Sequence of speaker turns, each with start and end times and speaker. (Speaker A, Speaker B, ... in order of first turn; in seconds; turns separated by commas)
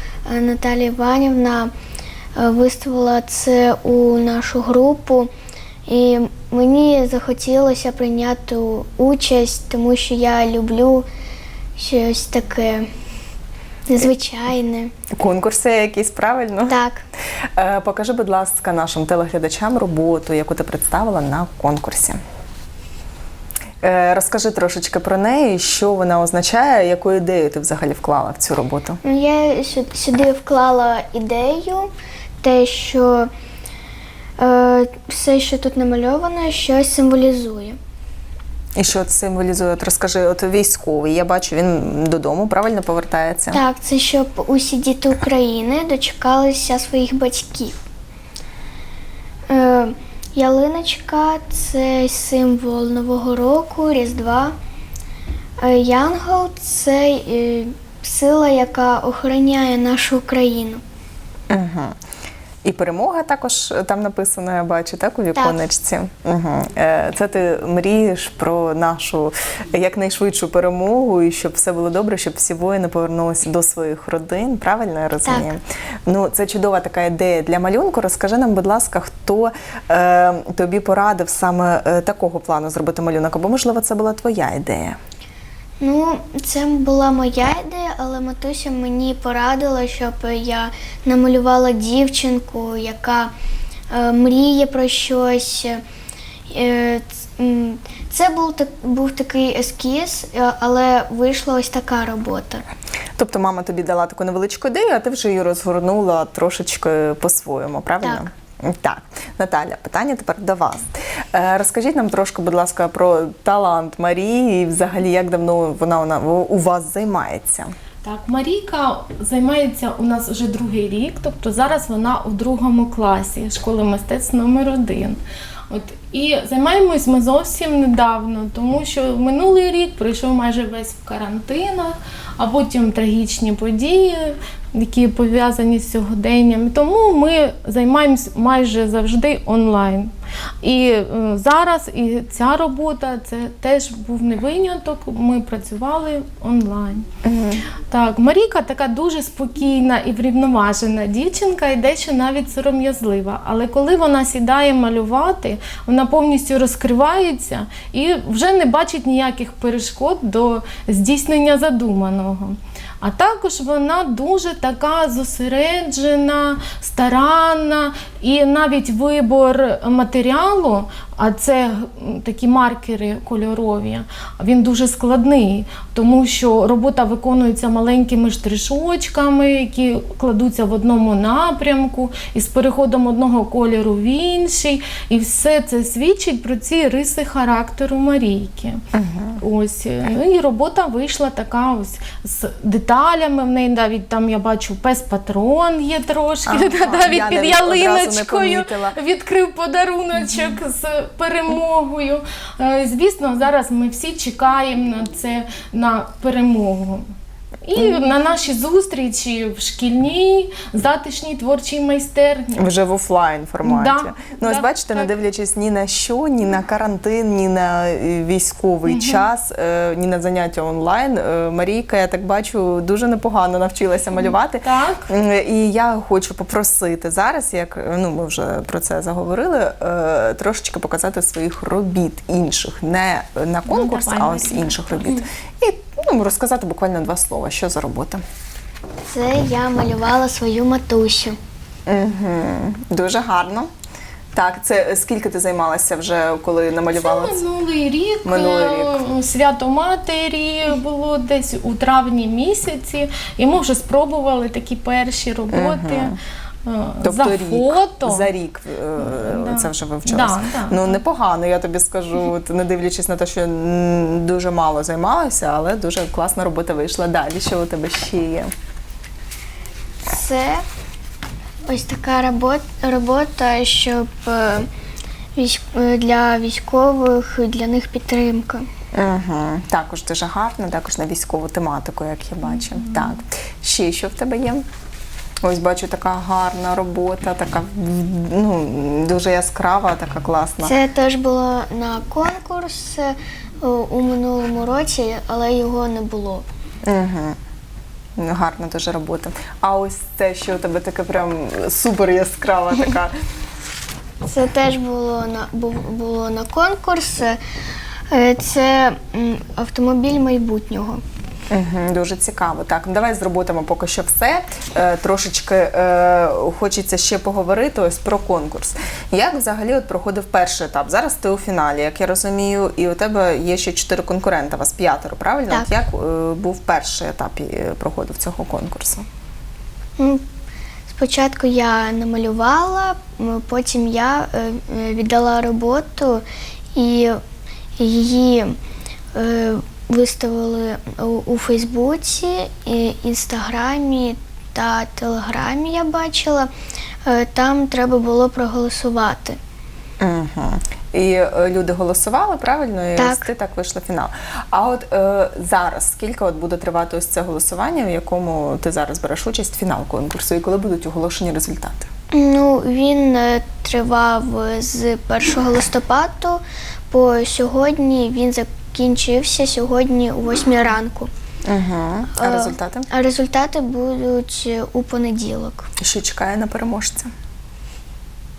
Speaker A: 0.3-1.7, Speaker A: 2.4-5.3, Speaker A: 5.9-11.1, Speaker A: 11.8-12.9, Speaker A: 13.9-14.9, Speaker B: 15.1-16.8, Speaker A: 16.7-17.1, Speaker B: 17.6-22.2, Speaker B: 23.8-29.0, Speaker A: 29.0-31.9, Speaker A: 32.4-33.3, Speaker A: 34.4-37.8, Speaker B: 38.8-43.6, Speaker A: 43.5-47.8, Speaker A: 49.5-54.5, Speaker A: 55.6-60.8, Speaker B: 61.5-62.0, Speaker B: 62.6-85.0, Speaker A: 65.3-65.6, Speaker A: 75.2-75.5, Speaker A: 85.8-93.3, Speaker A: 93.9-95.8, Speaker A: 96.5-102.6, Speaker B: 103.2-117.7, Speaker A: 108.0-108.3, Speaker C: 118.0-140.1, Speaker C: 140.6-147.1, Speaker B: 147.2-147.7, Speaker C: 147.8-188.8, Speaker B: 188.9-189.4, Speaker C: 189.4-207.1, Speaker B: 196.5-199.0, Speaker C: 207.7-212.7, Speaker B: 207.8-208.1, Speaker B: 212.6-238.2, Speaker C: 213.6-215.1, Speaker C: 218.9-219.2, Speaker C: 224.1-225.1, Speaker C: 233.7-235.2, Speaker A: 239.1-241.4, Speaker B: 241.9-243.7, Speaker B: 244.3-247.4, Speaker C: 246.9-256.1, Speaker B: 248.2-249.0, Speaker B: 255.5-256.2, Speaker C: 256.6-258.3, Speaker B: 257.0-268.5, Speaker C: 259.0-261.0, Speaker A: 270.1-270.6, Speaker A: 271.7-274.7, Speaker A: 275.4-278.6, Speaker B: 278.9-284.6, Speaker B: 285.4-290.7, Speaker A: 290.6-296.4, Speaker B: 296.9-297.4, Speaker B: 298.2-303.1, Speaker A: 304.2-307.4, Speaker A: 308.1-311.0, Speaker B: 311.5-329.1, Speaker A: 330.9-336.2, Speaker A: 336.8-337.2, Speaker A: 337.8-338.6, Speaker A: 339.1-346.5, Speaker A: 347.1-349.4, Speaker B: 350.0-361.9, Speaker A: 353.0-353.3, Speaker A: 362.1-371.1, Speaker B: 371.4-372.9, Speaker A: 372.2-375.7, Speaker B: 375.8-377.1